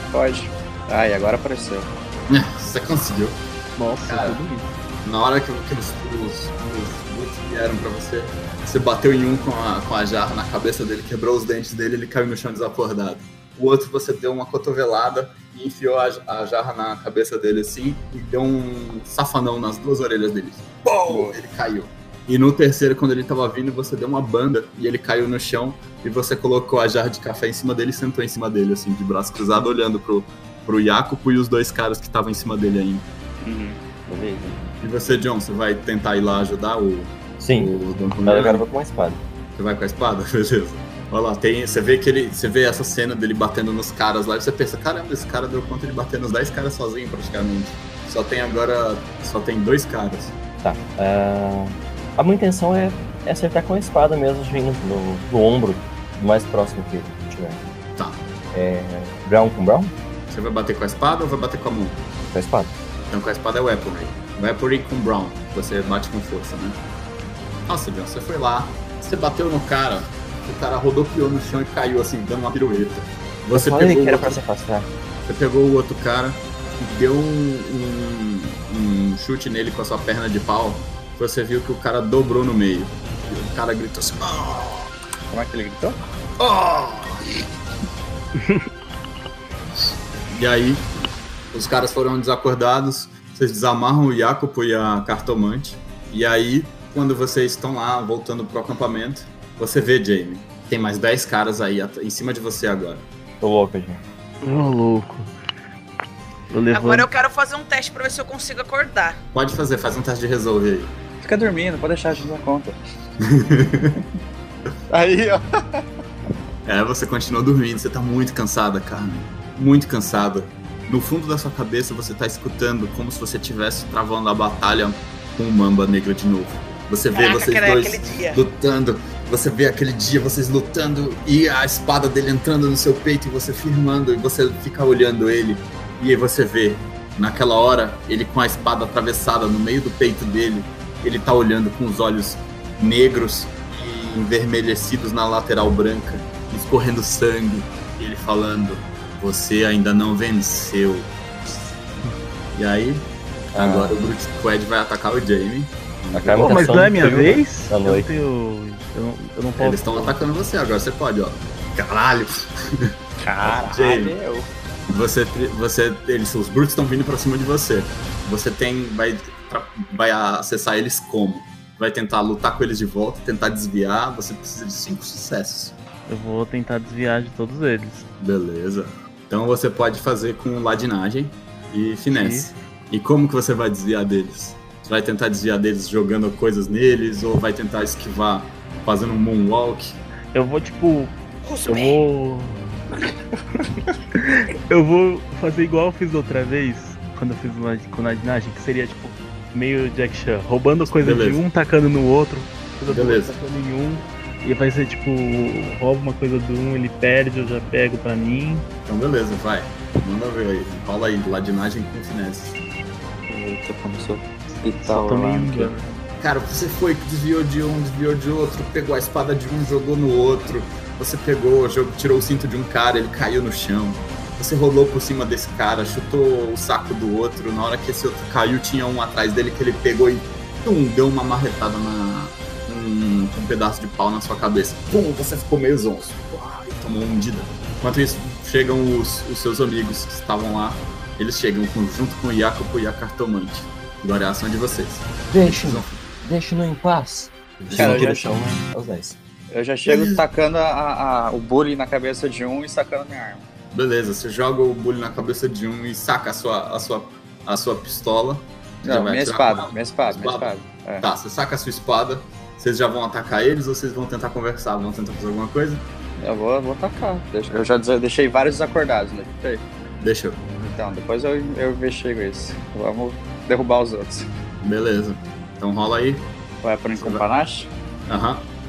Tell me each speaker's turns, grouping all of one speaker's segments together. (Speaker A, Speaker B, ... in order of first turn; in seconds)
Speaker A: 0.1-1.9, 21.1-21.4, 33.4-34.6, 85.3-86.0, 111.2-112.8, 114.9-115.8, 163.2-164.5, 213.3-215.7, 247.7-248.4, 249.5-253.5, 258.9-261.1, 266.2-269.6, 270.6-274.3, 276.6-277.7
Speaker B: 2.3-3.4, 4.1-4.4, 5.0-33.1, 34.8-38.6, 39.6-50.4, 60.3-62.0, 63.1-66.8, 67.7-74.4, 75.3-84.9, 86.4-87.2, 90.3-90.9, 91.5-103.0, 109.3-110.9, 113.3-114.0, 116.7-151.7, 152.5-156.9, 159.6-164.2, 164.9-175.8, 178.2-190.0, 200.9-201.4, 202.9-203.3, 208.9-212.6, 216.2-246.0, 247.7-248.1, 249.9-250.2, 253.7-265.9, 270.0-270.4, 274.6-276.3, 277.0-277.2, 278.1-278.5
Speaker C: 3.8-4.7, 104.4-105.3, 106.5-107.1, 156.4-160.2, 176.1-178.1, 182.1-182.5, 190.3-191.1, 191.7-192.6, 193.6-208.7, 214.8-215.9
Speaker D: 37.4-37.7, 38.2-39.2, 50.6-57.6, 58.5-60.0, 62.3-62.7, 73.5-74.9, 103.4-104.0, 153.5-154.0, 156.1-158.2, 245.3-249.2
Speaker E: 106.7-109.2, 127.1-128.4, 191.4-192.0